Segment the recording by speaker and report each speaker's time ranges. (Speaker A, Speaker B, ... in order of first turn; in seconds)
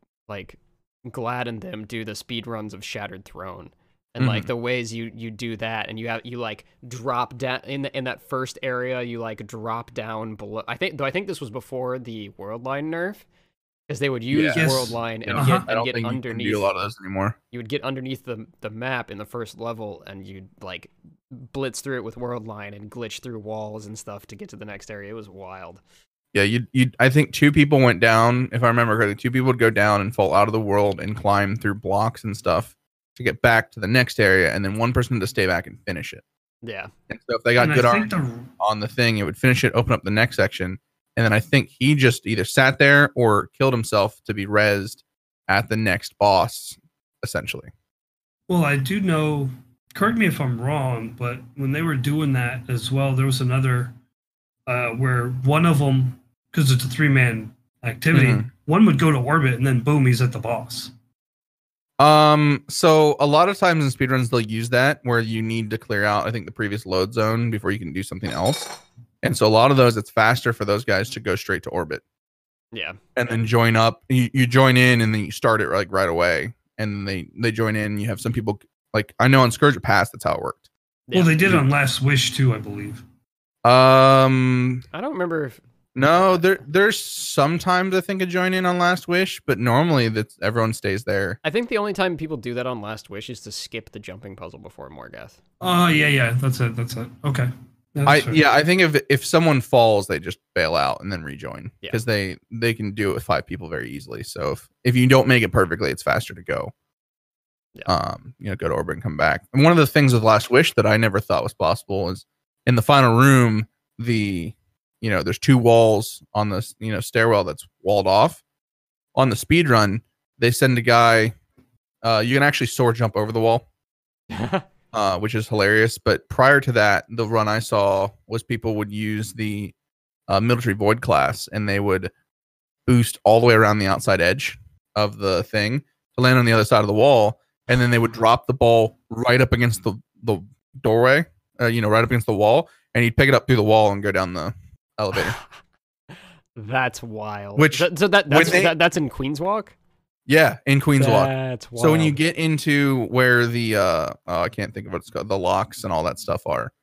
Speaker A: 0.3-13.2, 13.9-16.6, 17.5-25.8, 36.6-36.9, 72.7-73.0, 81.1-81.5, 84.9-85.6, 91.4-95.4, 124.3-124.6, 146.6-149.7, 151.0-152.2
Speaker B: 4.2-4.5, 14.3-14.6, 15.3-17.4, 26.3-36.2, 37.1-47.7, 58.1-58.4, 62.0-72.0, 73.2-80.6, 83.6-84.8, 85.9-91.4, 98.0-106.7, 107.9-118.4, 119.1-121.3, 122.0-123.6, 124.9-129.7, 130.3-132.1, 132.8-145.4, 147.6-148.7, 150.3-156.7
Speaker C: 14.6-15.6, 37.6-38.5, 48.5-53.9, 54.7-60.9, 81.1-83.0, 95.6-98.4